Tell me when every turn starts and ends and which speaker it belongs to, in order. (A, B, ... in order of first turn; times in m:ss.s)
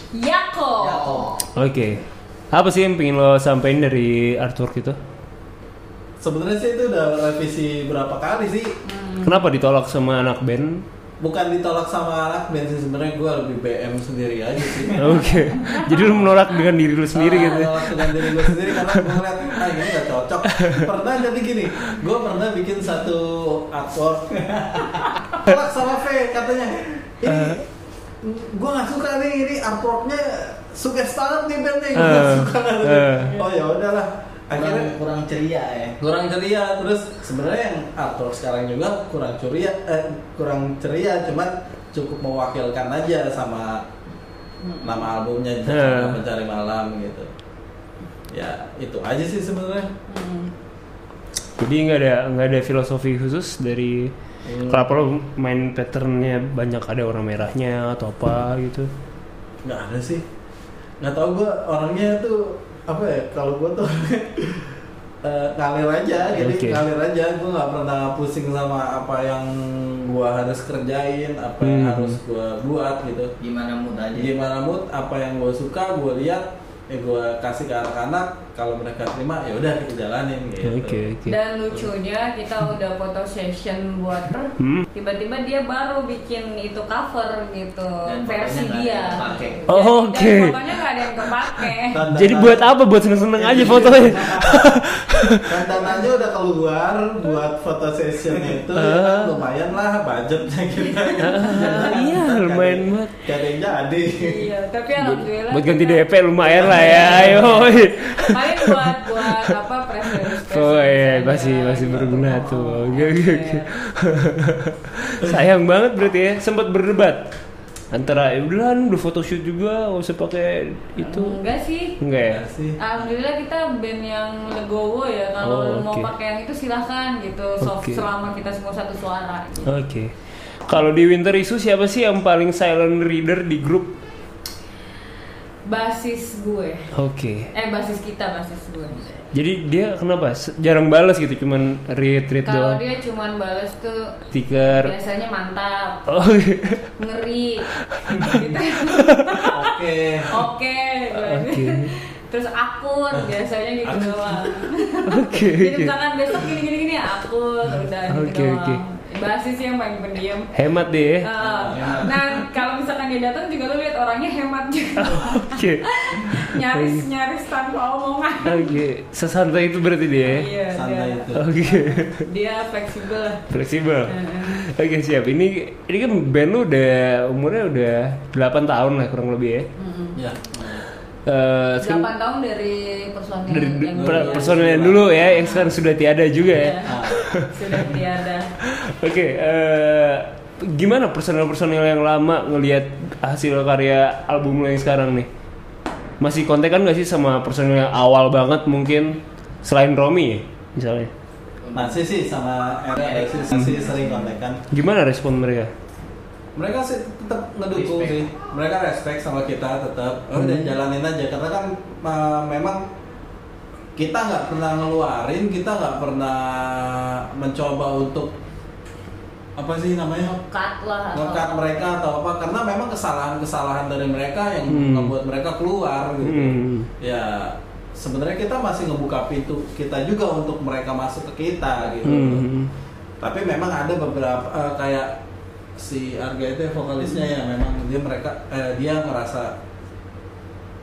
0:00.1-0:01.3 A
0:00.8-0:01.4 B
0:01.6-0:05.0 C
0:06.2-0:08.8 D
0:08.8-0:09.4 A
0:09.2-0:10.8 C
0:11.2-0:16.4 D
0:15.0-0:19.2 C
0:15.6-0:15.9 A
0:17.1-0:27.6 D
0:20.6-0:20.9 C
0:27.3-0:27.6 C
0:28.2-0:35.0 D
0:32.0-0:33.4 C
0:34.5-0:36.0 B
0:36.0-0:43.8 D
0:44.6-0:45.1 A
0:44.8-0:47.3 D
0:45.7-0:46.2 C
0:48.3-0:49.9 D
0:50.1-0:50.5 A
0:51.6-0:54.1 C
0:54.4-0:55.0 D
0:54.7-0:58.9 C
0:59.6-1:00.2 D
1:01.0-1:13.3 D
1:06.4-1:06.8 C
1:11.6-1:12.2 C
1:13.4-1:14.3 B
1:14.2-1:21.0 D
1:20.6-1:21.4 C
1:21.3-1:32.0 A
1:24.6-1:24.9 C
1:28.1-1:29.6 B
1:29.7-1:30.6 C
1:31.9-1:32.7 D
1:32.1-1:35.6 C
1:33.4-1:34.8 D
1:35.4-1:44.4 D
1:38.8-1:39.3 C
1:40.9-1:41.9 A
1:41.2-1:43.1 C
1:44.2-1:53.7 A
1:45.0-1:49.2 C
1:46.4-1:47.8 D
1:50.3-1:57.3 C
1:57.9-2:01.4 C
2:01.0-2:02.0 A
2:02.0-2:02.4 C
2:02.2-2:02.8 D
2:02.8-2:09.7 A
2:05.4-2:06.1 C
2:07.6-2:08.0 C
2:09.7-2:10.1 C
2:10.7-2:14.0 C
2:15.7-2:16.9 A
2:16.9-2:17.5 C
2:17.5-2:19.1 A
2:19.3-2:22.8 C
2:22.4-2:26.1 A
2:24.3-2:24.9 C
2:26.1-2:26.8 C
2:27.0-2:29.7 A
2:28.0-2:29.3 C
2:29.5-2:30.3 D
2:30.3-2:40.5 A
2:31.2-2:31.9 C
2:33.8-2:34.6 D
2:35.1-2:35.9 C
2:38.1-2:38.8 C
2:40.6-2:41.3 C
2:41.2-2:48.8 A
2:41.4-2:42.2 B
2:45.0-2:47.0 C
2:48.4-2:50.5 C
2:50.2-2:53.5 A
2:50.7-2:51.6 D
2:51.4-2:52.2 C
2:53.5-2:59.7 C
2:54.1-2:54.7 A
2:59.8-3:00.2 A
3:00.2-3:00.8 D
3:01.3-3:02.1 C
3:01.8-3:05.7 A
3:03.5-3:07.5 C
3:04.1-3:05.5 B
3:04.2-3:05.1 D
3:06.5-3:08.5 A
3:06.9-3:07.3 D
3:08.7-3:15.3 C
3:16.2-3:21.1 C
3:21.6-3:22.0 B
3:21.7-3:24.6 D
3:23.0-3:24.1 B
3:23.5-3:23.8 C
3:24.7-3:25.7 C
3:26.6-3:32.8 D
3:27.7-3:28.2 B
3:30.4-3:30.7 C
3:34.0-3:38.4 D
3:39.6-3:40.4 D
3:40.5-3:41.8 A
3:41.1-3:52.5 D
3:44.7-3:45.1 C
3:46.2-3:46.9 C
3:52.0-3:52.7 C
3:53.2-3:55.1 D
3:55.8-3:59.5 D